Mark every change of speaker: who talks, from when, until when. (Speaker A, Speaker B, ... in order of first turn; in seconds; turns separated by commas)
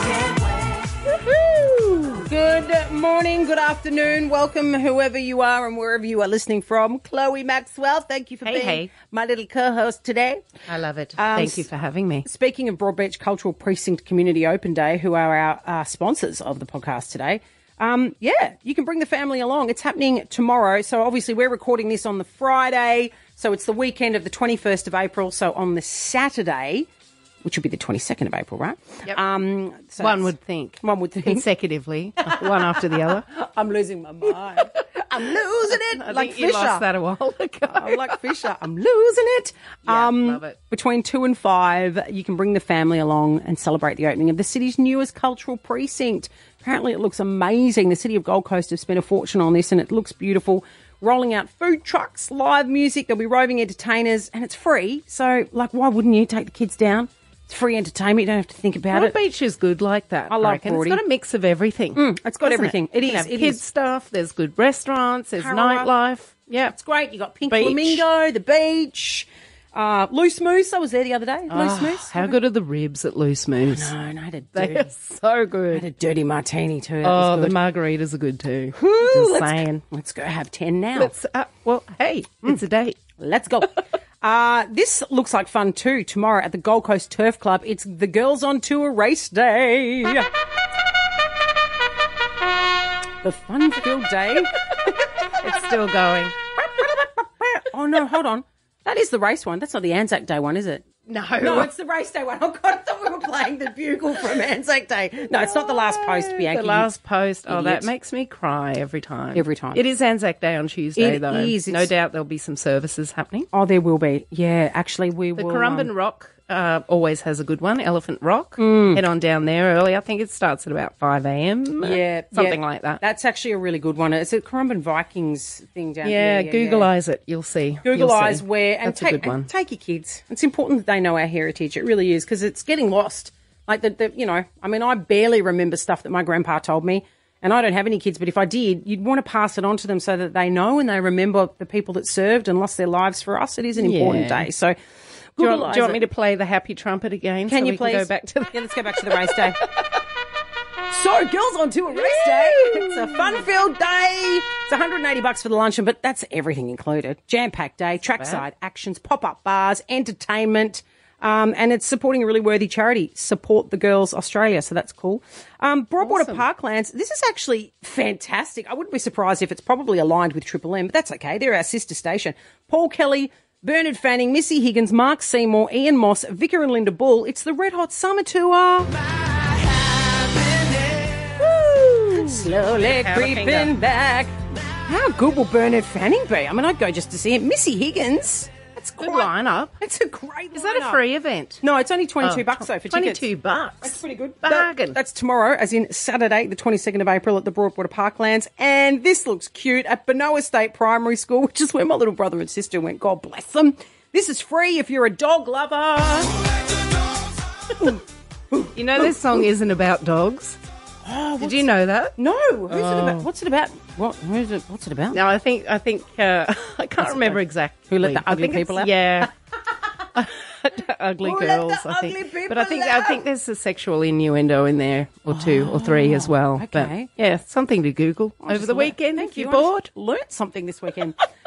Speaker A: 1.1-2.2, Speaker B: 2.1-10.4, Speaker A: 8.4-8.9, Speaker A: 10.7-12.3, Speaker B: 11.2-11.7, Speaker B: 12.2-26.9, Speaker B: 27.4-31.5, Speaker A: 30.0-33.3, Speaker B: 32.2-36.9, Speaker A: 35.7-38.2, Speaker B: 37.7-59.2, Speaker A: 39.9-40.6, Speaker A: 58.9-66.8, Speaker B: 60.3-61.0, Speaker B: 62.0-63.6, Speaker B: 65.4-65.9, Speaker B: 66.6-72.4, Speaker A: 67.5-68.0, Speaker A: 71.5-73.9, Speaker B: 73.7-74.9, Speaker A: 74.5-75.9, Speaker B: 75.7-77.6, Speaker A: 77.0-79.8, Speaker B: 78.7-81.2, Speaker A: 81.0-83.0, Speaker B: 83.2-90.3, Speaker B: 93.2-94.9, Speaker A: 95.4-96.4, Speaker B: 96.5-100.9, Speaker A: 101.1-101.7, Speaker B: 101.4-106.9, Speaker A: 105.7-113.5, Speaker B: 107.5-107.9, Speaker B: 109.3-109.8, Speaker B: 111.0-111.9, Speaker B: 113.5-115.9, Speaker A: 115.3-123.0, Speaker B: 118.6-119.0, Speaker B: 121.8-126.9, Speaker A: 126.0-129.5, Speaker B: 127.8-144.8, Speaker A: 143.8-144.5, Speaker B: 145.4-146.1, Speaker A: 145.4-149.5, Speaker B: 147.5-149.6, Speaker B: 150.9-178.9, Speaker A: 151.9-153.4, Speaker A: 158.2-158.4, Speaker A: 166.0-166.4, Speaker A: 181.4-183.7, Speaker B: 182.0-191.0, Speaker A: 189.0-189.8, Speaker A: 190.5-191.6, Speaker B: 191.6-193.3, Speaker A: 192.2-195.0, Speaker B: 193.8-206.4, Speaker B: 208.5-209.4, Speaker A: 208.7-210.6, Speaker B: 211.1-215.2, Speaker A: 211.4-212.2, Speaker A: 212.7-213.3, Speaker A: 215.1-219.3, Speaker B: 217.0-219.3, Speaker A: 220.2-229.9, Speaker B: 221.2-223.2, Speaker B: 225.3-227.1, Speaker B: 228.4-231.2